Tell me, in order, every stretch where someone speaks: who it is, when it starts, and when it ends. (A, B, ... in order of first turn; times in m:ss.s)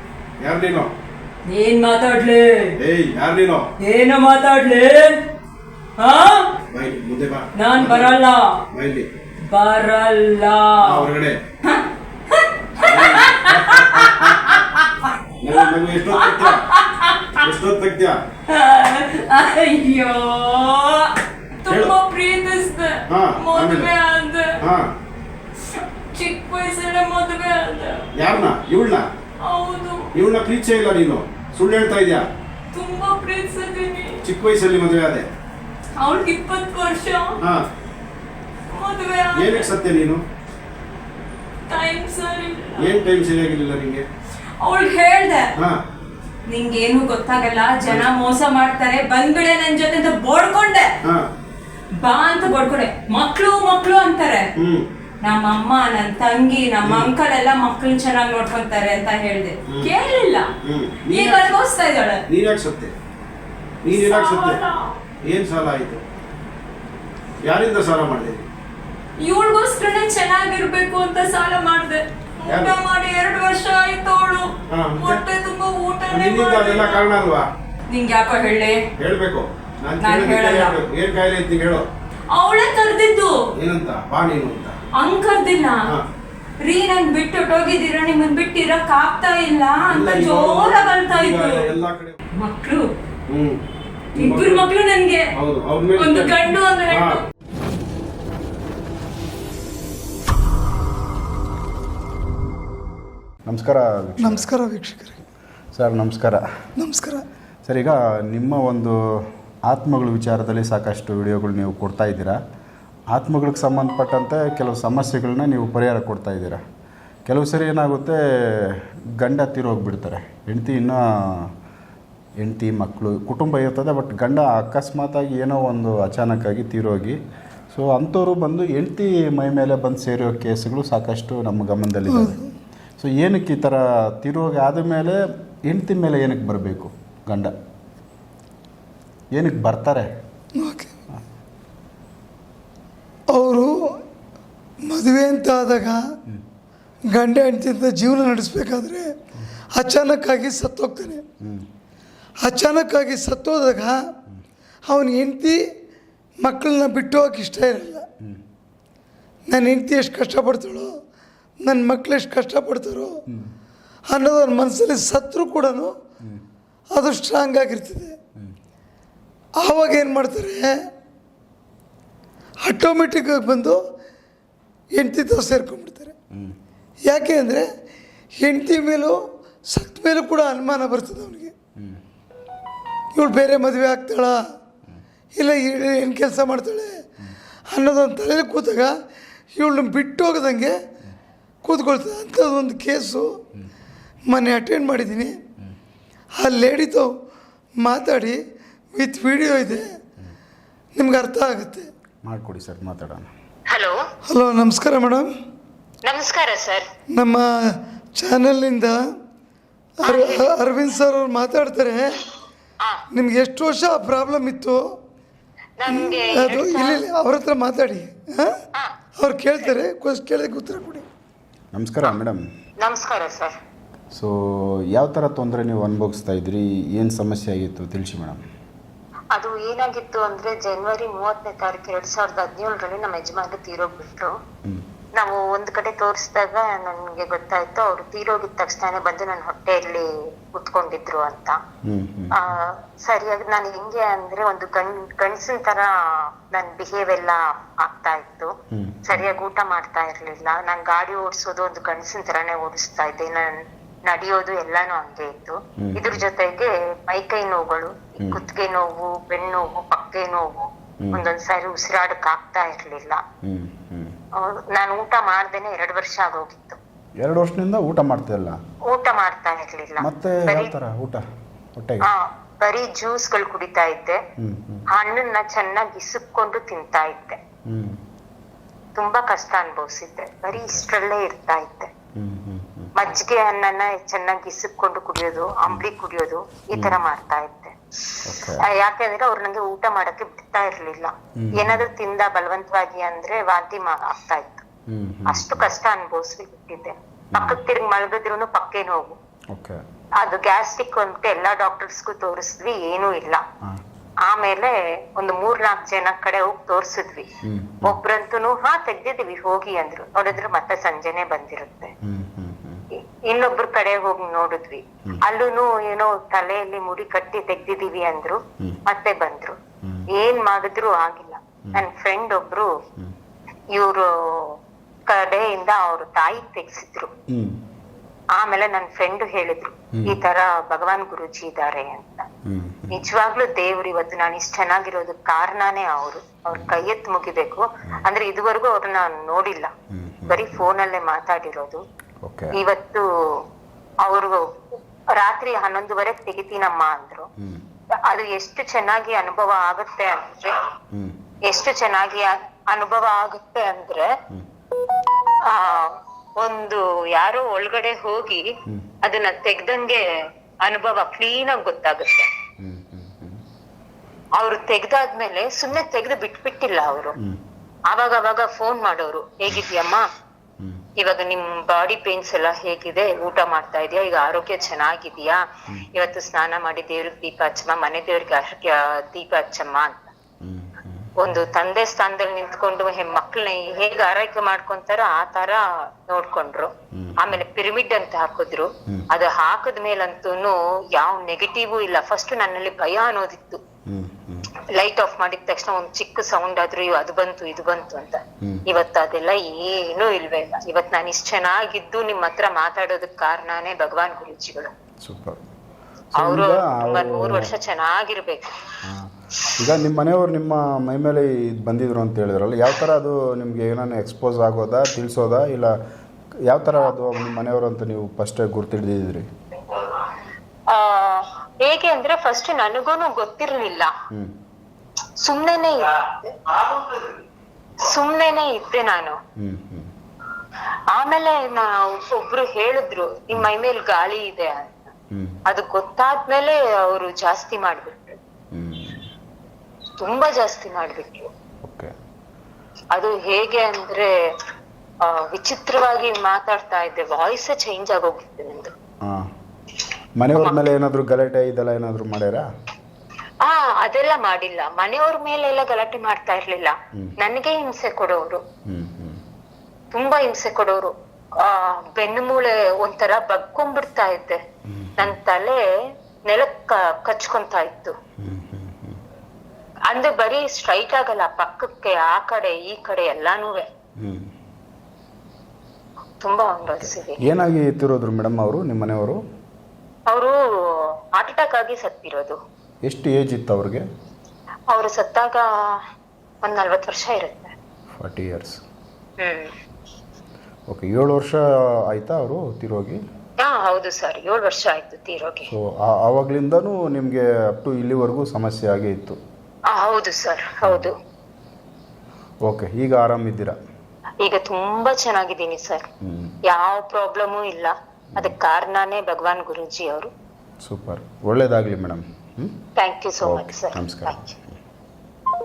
0:00.4-0:00.9 A
0:01.5-0:02.7 B
0:02.8-0:03.7 A
0:03.8-0:05.2 B
0:06.0-0:06.5 B
0:06.7-0:08.2 A
0:07.6-0:08.6 B
0:08.7-0:09.1 A
0:09.5-0:11.1 B
0:10.8-0:11.4 A
0:11.6-0:17.4 B
0:12.8-0:14.6 A
0:15.4-0:16.7 A
0:17.4-0:18.2 A
0:18.5-0:24.6 B
0:21.7-0:21.9 A
0:23.1-0:23.9 A
0:24.6-0:24.9 A
0:25.7-0:28.1 B
0:28.2-0:29.1 A
0:29.4-0:30.1 B
0:30.1-0:32.2 A
0:32.7-0:34.2 B
0:34.2-0:35.3 A
0:36.0-0:37.4 B
0:38.7-0:39.7 B
0:39.3-0:40.2 A
0:41.7-0:43.0 B
0:42.8-0:44.0 A
0:44.6-0:45.5 B
0:46.5-0:50.9 B
0:47.8-0:48.1 A
0:52.0-0:54.5 B
0:54.6-0:54.8 A
0:55.2-1:00.5 B
0:56.8-0:57.1 A
1:00.6-1:01.5 A
1:01.1-1:02.2 B
1:02.3-1:02.9 A
1:03.8-1:04.6 A
1:03.9-1:04.9 B
1:05.2-1:06.0 A
1:07.4-1:08.4 A
1:09.2-1:17.1 B
1:12.4-1:12.8 A
1:14.7-1:15.2 A
1:16.1-1:17.5 A
1:17.9-1:18.8 B
1:19.0-1:21.9 A
1:20.0-1:20.8 B
1:22.3-1:23.3 B
1:23.6-1:24.8 A
1:25.0-1:25.9 B
1:26.6-1:31.7 B
1:29.9-1:32.2 A
1:32.4-1:32.9 B
1:33.3-1:33.6 A
1:34.2-1:34.6 A
1:34.2-1:35.2 B
1:35.3-1:37.2 A
1:36.0-1:37.2 B
1:43.5-1:44.5 C
1:44.2-1:45.2 D
1:45.7-1:46.4 C
1:46.8-1:47.2 D
1:47.6-1:52.4 C
1:53.1-1:56.6 C
1:57.3-2:01.5 C
2:02.4-2:07.2 C
2:07.7-2:12.4 C
2:12.1-2:12.5 D
2:13.0-2:17.5 C
2:19.3-2:20.1 C
2:20.6-2:20.9 D
2:23.3-2:23.7 D
2:24.8-2:26.0 D
2:27.1-2:29.2 D
2:29.7-2:31.2 D
2:31.4-2:31.7 C
2:32.4-2:34.0 D
2:34.9-2:35.6 D
2:36.4-2:38.1 D
2:39.5-2:40.9 D
2:41.6-2:43.2 D
2:44.1-2:46.0 D
2:46.9-2:48.2 D
2:49.6-2:50.7 D
2:52.6-2:53.8 D
2:54.9-2:56.2 D
2:57.0-2:57.6 D
2:58.4-3:01.5 D
3:03.1-3:04.4 D
3:05.3-3:07.0 D
3:07.7-3:08.9 D
3:09.5-3:10.8 D
3:11.6-3:13.4 D
3:14.3-3:15.4 D
3:16.4-3:17.1 D
3:17.8-3:18.4 D
3:18.9-3:19.8 D
3:21.0-3:21.9 D
3:22.2-3:23.3 C
3:23.7-3:24.0 E
3:24.3-3:25.3 D
3:26.0-3:26.8 E
3:27.1-3:29.0 D
3:30.0-3:32.2 D
3:30.0-3:30.6 E
3:33.1-3:34.8 D
3:35.8-3:37.1 E
3:35.9-3:38.6 D
3:38.7-3:39.0 E
3:39.2-3:41.0 D
3:41.7-3:42.4 C
3:42.8-3:43.5 E
3:44.1-3:48.4 C
3:49.3-3:54.3 E
3:55.2-4:01.6 E
4:01.9-4:02.4 C
4:02.3-4:08.5 E
4:08.8-4:09.3 C
4:09.1-4:23.2 E
4:15.8-4:16.2 C
4:23.4-4:24.2 C
4:24.4-4:26.8 E
4:27.2-4:28.6 C
4:28.9-4:30.7 E
4:30.0-4:31.2 C
4:31.8-4:32.1 C
4:32.0-4:34.2 E
4:34.4-4:34.8 C
4:34.9-4:37.4 E
4:37.7-4:38.0 C
4:39.0-4:41.9 E
4:40.5-4:40.8 C
4:42.2-4:42.9 C
4:43.0-4:54.6 E
4:48.2-4:48.6 C
4:51.4-4:51.9 C
4:54.9-4:55.7 C
4:55.3-4:59.2 E
4:57.4-4:57.6 C
4:59.5-4:59.8 C
5:00.2-5:03.4 E
5:04.3-5:07.3 E
5:07.5-5:08.0 C
5:07.8-5:11.9 E
5:12.0-5:12.8 C
5:13.0-5:19.6 E
5:20.2-5:22.7 E
5:23.7-5:27.1 E
5:27.3-5:27.6 C
5:28.4-5:32.3 E
5:32.5-5:33.0 C
5:32.9-5:39.7 E
5:36.5-5:36.8 C
5:39.9-5:40.7 C
5:40.3-5:41.8 E
5:42.2-5:42.6 C
5:42.5-5:43.4 E
5:44.0-5:47.3 E
5:48.1-5:50.7 E
5:51.5-5:54.1 E
5:55.5-5:58.5 E
5:59.0-6:00.0 E
6:00.6-6:02.3 E
6:02.6-6:03.4 C
6:04.4-6:07.2 E
6:07.9-6:10.0 E
6:11.0-6:20.1 E
6:20.4-6:21.1 C
6:21.2-6:33.6 E
6:27.0-6:27.4 C
6:33.9-6:34.5 C
6:34.6-6:44.7 E
6:45.0-6:45.4 C
6:46.2-6:47.5 C
6:46.2-6:48.6 E
6:48.8-6:55.8 C
6:56.5-6:59.3 C
6:59.6-7:00.1 E
7:00.7-7:03.9 E
7:05.2-7:07.2 E
7:07.8-7:09.2 E
7:09.4-7:09.9 C
7:10.9-7:14.9 E
7:15.1-7:15.4 C
7:15.5-7:18.2 E
7:18.5-7:19.1 C
7:20.0-7:21.3 E
7:21.6-7:21.9 C
7:22.9-7:24.1 E
7:25.0-7:28.7 E
7:30.2-7:32.5 C
7:30.4-7:30.7 E
7:33.4-7:38.4 E
7:38.7-7:39.2 C
7:39.9-7:44.4 E
7:44.7-7:45.2 C
7:45.0-7:45.6 E
7:46.3-7:48.0 E
7:48.2-7:49.0 C
7:49.9-7:53.7 E
7:54.0-7:54.3 C
7:56.2-7:57.2 E
7:56.7-7:59.2 C
8:01.2-8:02.4 E
8:02.8-8:03.9 C
8:04.7-8:05.8 E
8:06.4-8:07.6 E
8:08.0-8:08.6 C
8:09.2-8:09.5 E
8:10.7-8:13.0 C
8:13.4-8:15.5 E
8:15.5-8:19.2 C
8:19.7-8:20.9 E
8:20.6-8:20.9 C
8:22.4-8:23.6 C
8:24.2-8:25.9 E
8:26.0-8:26.4 C
8:26.5-8:30.1 E
8:30.6-8:32.6 C
8:32.8-8:34.3 E
8:33.2-8:34.6 C